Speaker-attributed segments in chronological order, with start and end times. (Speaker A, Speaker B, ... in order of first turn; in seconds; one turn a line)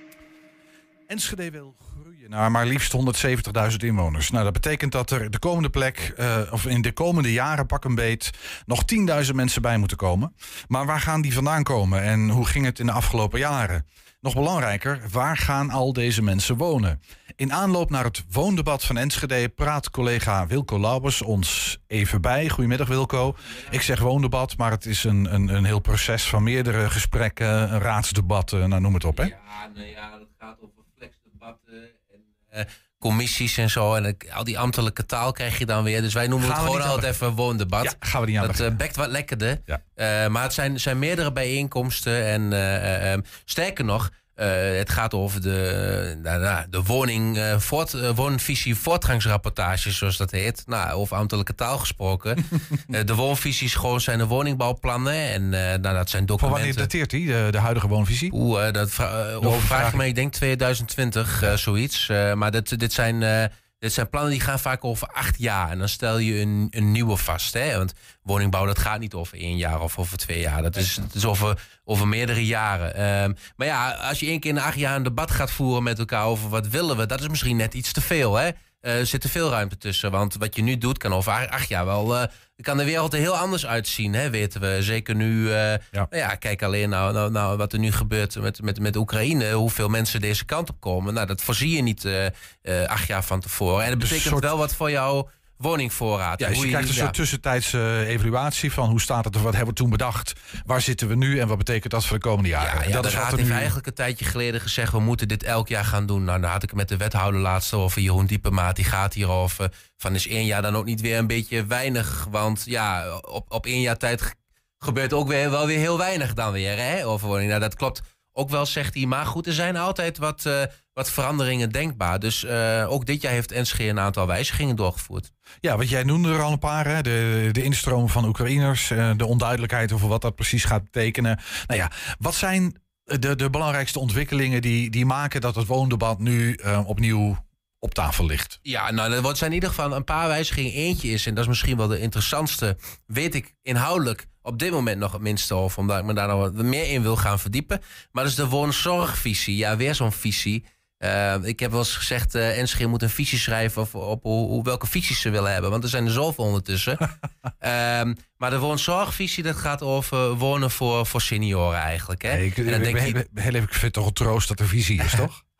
Speaker A: 1.1-29.3
Speaker B: 29.2-56.9
Speaker A: 36.4-37.1
Speaker A: 37.8-38.8
Speaker A: 56.4-58.3
Speaker B: 58.3-97.1
Speaker A: 59.4-60.1
Speaker A: 94.0-94.5
Speaker A: 96.4-103.7
Speaker B: 102.6-125.3
Speaker A: 125.6-138.6
Speaker B: 138.6-157.1
Speaker B: 157.6-163.2
Speaker A: 162.3-165.4